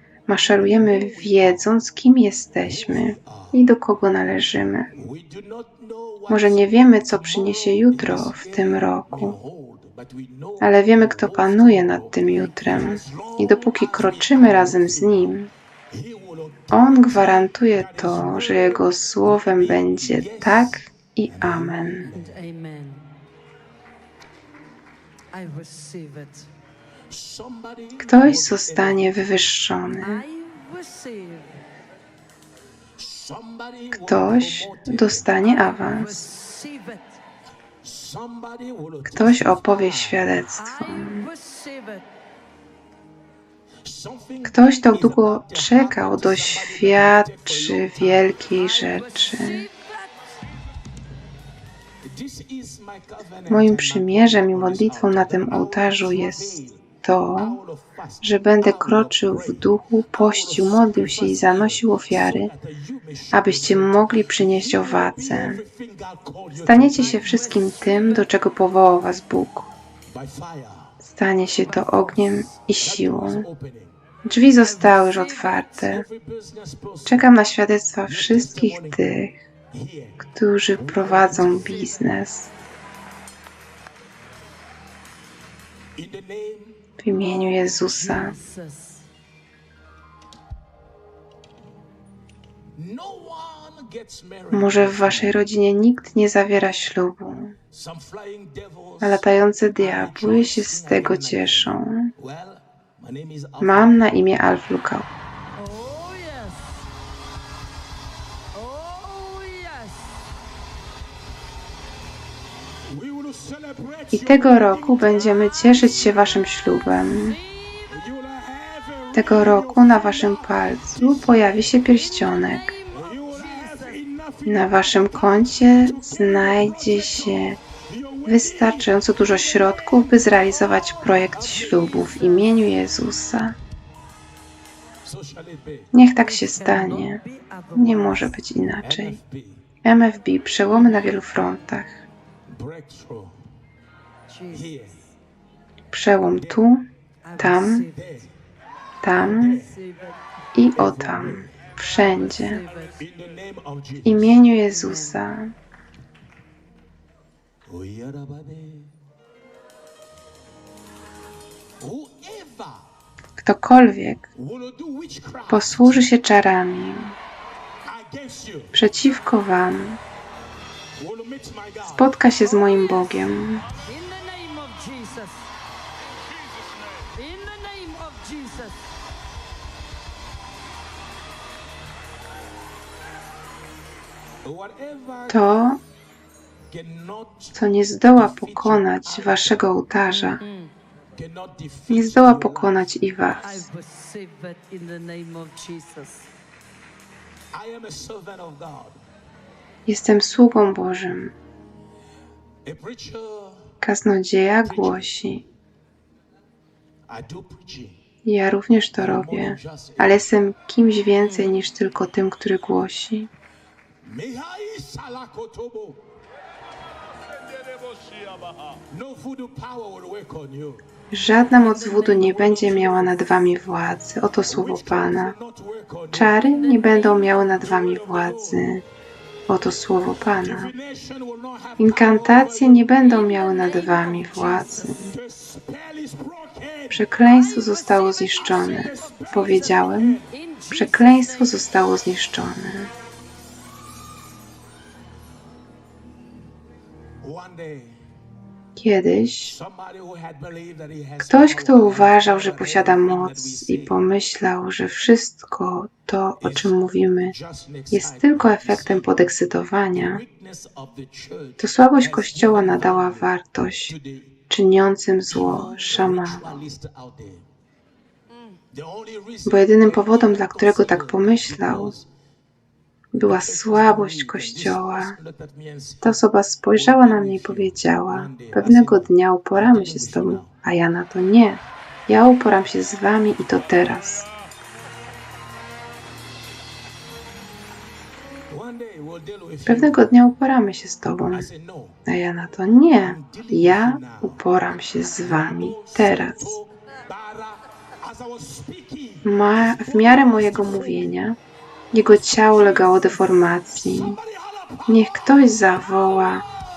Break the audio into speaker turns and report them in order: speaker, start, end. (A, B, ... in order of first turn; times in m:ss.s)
0:00.3-0:04.9 A
0:01.3-0:01.6 B
0:02.8-0:03.5 B
0:04.9-0:15.3 B
0:06.3-0:09.4 A
0:10.6-0:15.5 A
0:15.9-0:22.3 B
0:16.7-0:22.1 A
0:22.1-0:23.1 C
0:25.3-0:26.5 C
0:27.1-0:29.1 B
0:28.0-0:30.2 A
0:29.9-0:31.6 C
0:33.0-0:35.5 B
0:33.9-0:36.3 A
0:35.9-0:37.2 C
0:37.8-0:40.3 B
0:39.0-0:41.3 A
0:40.8-0:42.0 C
0:43.8-0:48.5 B
0:44.4-0:49.7 A
0:48.6-0:50.3 C
0:52.0-0:56.8 B
0:53.5-0:57.6 A
0:57.4-1:08.1 B
0:58.2-1:02.5 A
1:03.3-1:05.6 A
1:06.5-1:09.7 A
1:10.1-1:11.0 B
1:11.0-1:13.5 A
1:11.9-1:14.0 B
1:14.2-1:16.1 A
1:15.4-1:17.4 B
1:17.0-1:19.4 A
1:18.0-1:19.2 B
1:19.7-1:22.2 B
1:20.3-1:22.5 A
1:26.0-1:26.8 B
1:27.0-1:28.3 A
1:27.9-1:29.1 C
1:32.8-1:35.4 B
1:34.5-1:37.6 A
1:37.7-1:44.0 B
1:39.0-1:42.1 A
1:43.6-1:45.1 A
1:45.6-1:46.9 C
1:48.5-1:50.2 C
1:52.8-1:55.2 B
1:54.1-1:57.4 A
1:57.4-1:58.0 C
1:57.9-2:01.3 B
1:59.1-2:02.8 A
2:02.2-2:04.0 C
2:02.9-2:09.0 B
2:04.4-2:07.6 A
2:08.2-2:13.6 A
2:11.3-2:12.1 B
2:15.0-2:15.9 B
2:15.9-2:17.2 A
2:16.5-2:18.4 C
2:17.7-2:19.2 A
2:18.8-2:19.6 B
2:19.8-2:22.1 A
2:22.5-2:23.4 B
2:24.3-2:24.9 C
2:24.5-2:25.0 B
2:25.9-2:27.9 A
2:27.2-2:28.2 C
2:27.8-2:28.3 B
2:29.0-2:29.6 A
2:29.2-2:29.8 B
2:29.3-2:30.2 C
2:30.6-2:32.6 A
2:30.7-2:32.1 B
2:32.2-2:33.0 C
2:33.0-2:34.5 B
2:34.0-2:35.5 A
2:34.8-2:35.2 C
2:37.6-2:38.9 B
2:41.8-2:42.9 B
2:43.4-2:44.3 A
2:44.4-2:46.0 B
2:45.5-2:47.2 A
2:47.8-2:48.7 B
2:48.7-2:50.0 A
2:50.9-2:52.1 B
2:51.8-2:53.6 A
2:53.8-2:55.5 C
2:56.9-2:58.9 C
3:04.4-3:05.6 B
3:05.3-3:05.8 A
3:06.7-3:09.6 B
3:07.5-3:10.4 A
3:10.4-3:10.7 C
3:11.1-3:13.0 B
3:11.9-3:13.7 A
3:13.4-3:16.3 C
3:17.5-3:19.0 B
3:19.9-3:21.4 A
3:22.6-3:23.7 B
3:23.8-3:25.4 A
3:24.6-3:25.1 B
3:27.1-3:28.0 B
3:28.2-3:33.3 A
3:29.0-3:30.2 B
3:34.0-3:36.1 B
3:38.7-3:40.8 B
3:41.1-3:45.4 A
3:44.4-3:48.7 B
3:46.1-3:48.8 A
3:49.5-3:50.7 A
3:50.3-4:00.3 B
3:51.8-3:55.1 A
3:56.9-4:02.9 A
4:00.3-4:01.1 C
4:07.2-4:08.0 B
4:08.8-4:09.6 A
4:09.4-4:14.0 B
4:11.2-4:17.4 A
4:16.4-4:16.8 B
4:17.3-4:19.2 B
4:17.9-4:20.2 A
4:20.0-4:23.3 B
4:21.6-4:23.9 A
4:23.9-4:24.4 B
4:24.5-4:26.6 A
4:25.3-4:27.5 B
4:28.3-4:28.6 C
4:28.7-4:32.1 B
4:29.4-4:31.9 A
4:33.1-4:35.2 A
4:33.3-4:36.2 B
4:36.0-4:44.3 A
4:36.7-4:40.6 B
4:48.5-4:50.1 B
4:49.6-4:51.5 A
4:51.3-4:52.0 B
4:52.1-4:56.6 A
4:53.0-4:54.4 B
4:55.0-4:59.9 B
4:59.2-5:01.4 A
5:01.9-5:04.2 A
5:03.9-5:05.3 B
5:04.9-5:06.4 A